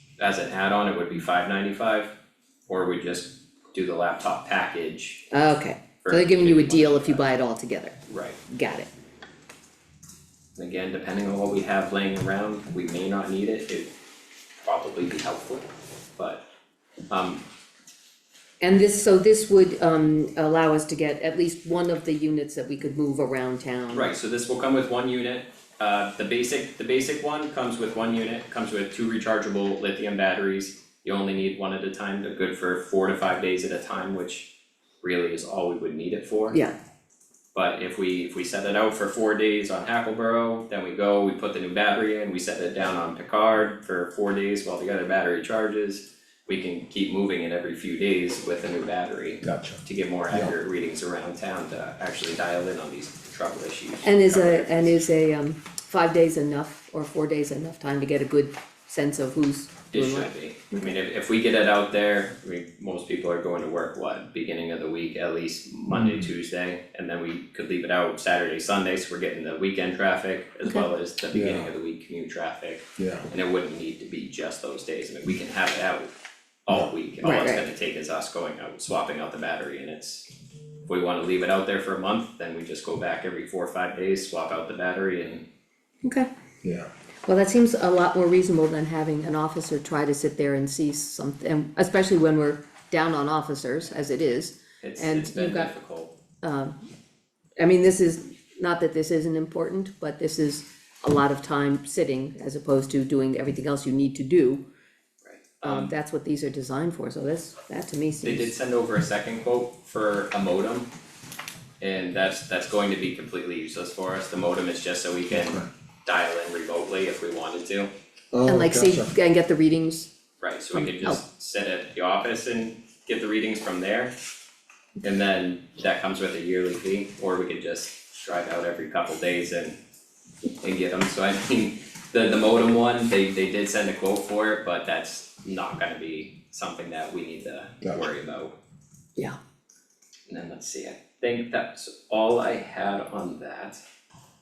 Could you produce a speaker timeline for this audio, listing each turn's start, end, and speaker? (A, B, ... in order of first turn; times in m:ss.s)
0:00.2-0:02.2 A
0:02.7-0:05.3 A
0:05.3-0:08.0 B
0:06.0-0:07.2 A
0:08.1-0:08.4 A
0:08.5-0:08.9 B
0:10.6-0:13.9 A
0:14.6-0:16.4 A
0:17.1-0:17.4 A
0:18.6-0:24.1 B
0:23.9-0:34.5 A
0:35.0-0:36.6 A
0:37.5-0:55.0 A
0:49.4-0:50.5 C
0:54.0-1:00.8 B
0:59.9-1:16.1 A
1:05.9-1:06.3 C
1:11.3-1:11.7 C
1:13.0-1:13.3 C
1:16.7-1:20.3 A
1:17.2-1:17.7 B
1:20.9-1:25.4 A
1:26.0-1:26.3 B
1:26.6-1:26.9 C
1:27.3-1:35.7 B
1:34.8-1:36.1 A
1:36.4-1:36.8 B
1:37.6-1:44.6 B
1:45.2-1:45.9 A
1:45.6-1:48.5 B
1:48.2-1:50.9 A
1:51.8-1:57.9 A
1:55.3-1:55.7 C
1:58.3-1:59.1 C
1:58.4-2:00.1 B
2:00.4-2:04.1 A
2:00.7-2:01.2 B
2:05.0-2:09.8 A
2:10.6-2:18.6 A
2:20.3-2:23.8 A